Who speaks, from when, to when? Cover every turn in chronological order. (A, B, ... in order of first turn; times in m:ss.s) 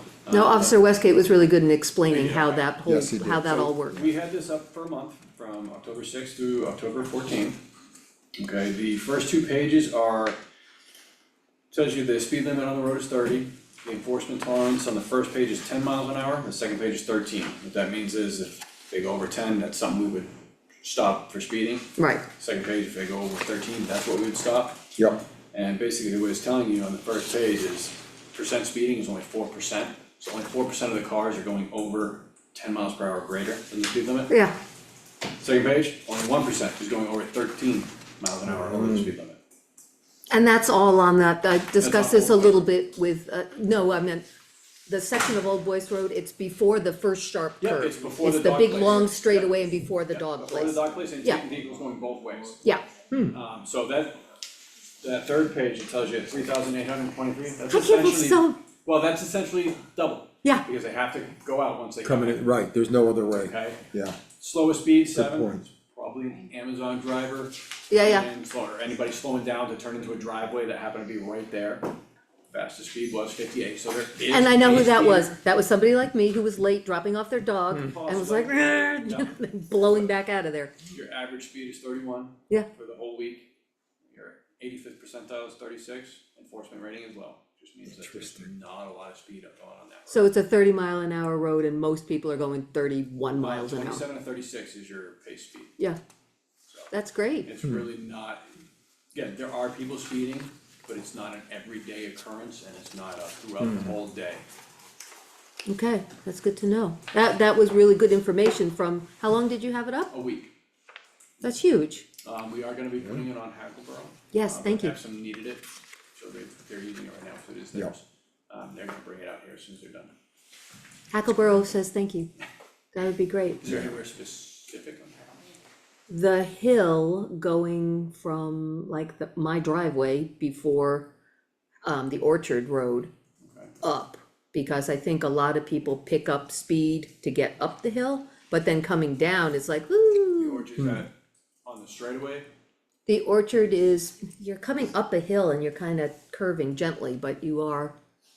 0:00.2-0:00.8 A
0:00.3-0:04.0 B
0:02.0-0:02.7 A
0:02.8-0:03.7 C
0:03.9-0:07.6 A
0:08.4-0:10.4 A
0:11.7-0:20.3 A
0:20.8-0:24.8 A
0:22.0-0:22.2 B
0:25.0-0:25.2 C
0:25.5-0:34.3 A
0:34.3-0:34.6 B
0:35.4-0:39.4 A
0:38.5-0:39.1 C
0:40.3-0:44.2 B
0:41.8-0:42.6 A
0:44.9-0:51.4 B
0:47.6-0:52.6 A
0:53.1-0:53.4 C
0:53.3-0:54.2 A
0:55.0-1:02.5 A
0:57.7-0:58.6 B
1:02.0-1:04.2 C
1:03.2-1:03.8 A
1:04.4-1:11.9 A
1:05.1-1:05.7 C
1:07.9-1:08.3 B
1:12.5-1:15.3 A
1:14.3-1:20.7 B
1:17.7-1:19.4 A
1:20.9-1:23.5 A
1:24.1-1:30.3 A
1:28.0-1:28.5 C
1:30.1-1:34.0 B
1:33.4-1:35.8 A
1:36.9-1:37.5 B
1:37.4-1:38.5 A
1:39.1-1:44.4 A
1:45.6-1:50.1 B
1:50.1-1:50.5 A
1:51.4-1:52.0 B
1:52.2-2:00.1 A
1:54.3-1:55.0 B
2:01.1-2:02.3 B
2:02.9-2:03.6 B
2:03.6-2:05.3 A
2:06.1-2:11.1 B
2:11.8-2:13.1 B
2:13.4-2:13.7 A
2:13.8-2:20.6 B
2:20.4-2:21.1 A
2:20.8-2:21.0 C
2:21.6-2:22.5 A
2:23.0-2:27.9 B